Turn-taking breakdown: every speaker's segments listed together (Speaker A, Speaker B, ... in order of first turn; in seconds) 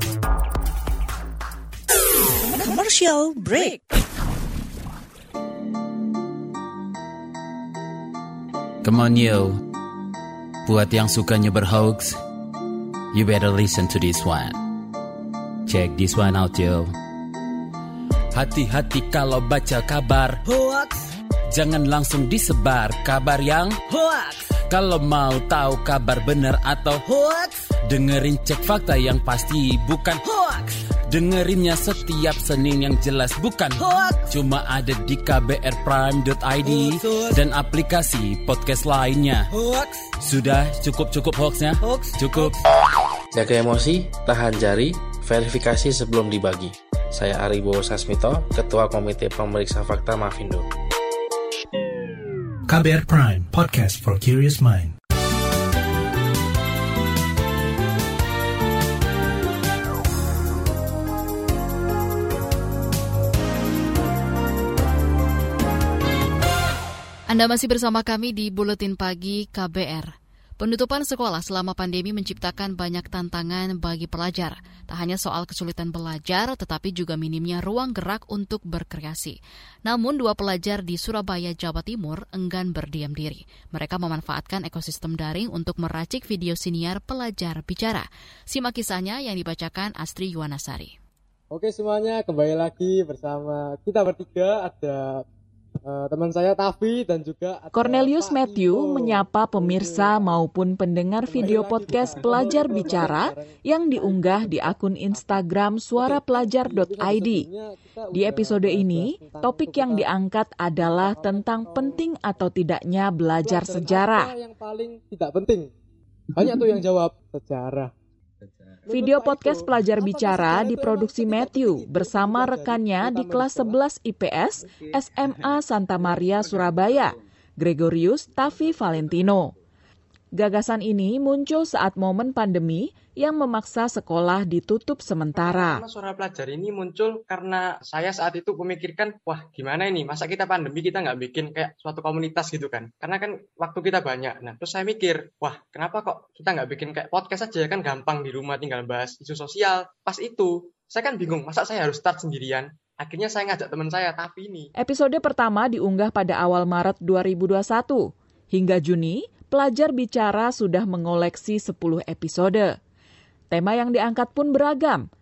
Speaker A: 2.5-3.8, 20.5-21.1, 23.9-24.4, 27.1-27.6, 30.2-30.8, 33.8-34.3, 36.6-37.4, 39.5-40.1, 41.8-42.5
Speaker B: 8.8-9.6, 10.7-12.2, 13.1-14.6, 15.7-16.9, 18.3-20.4, 21.5-23.8, 24.6-27.0, 27.9-30.2, 31.1-39.5, 40.2-42.6
Speaker C: 43.3-50.7
Speaker D: 52.7-55.0
Speaker E: 67.3-91.0
Speaker F: 91.5-95.2, 95.9-100.4, 101.3-105.4, 106.0-110.2, 110.8-112.5, 113.4-115.7, 116.3-117.9, 118.9-123.8
Speaker G: 97.8-107.5, 108.1-114.3, 118.9-129.5, 130.4-135.8, 154.8-162.7, 163.5-165.0
Speaker H: 135.3-154.7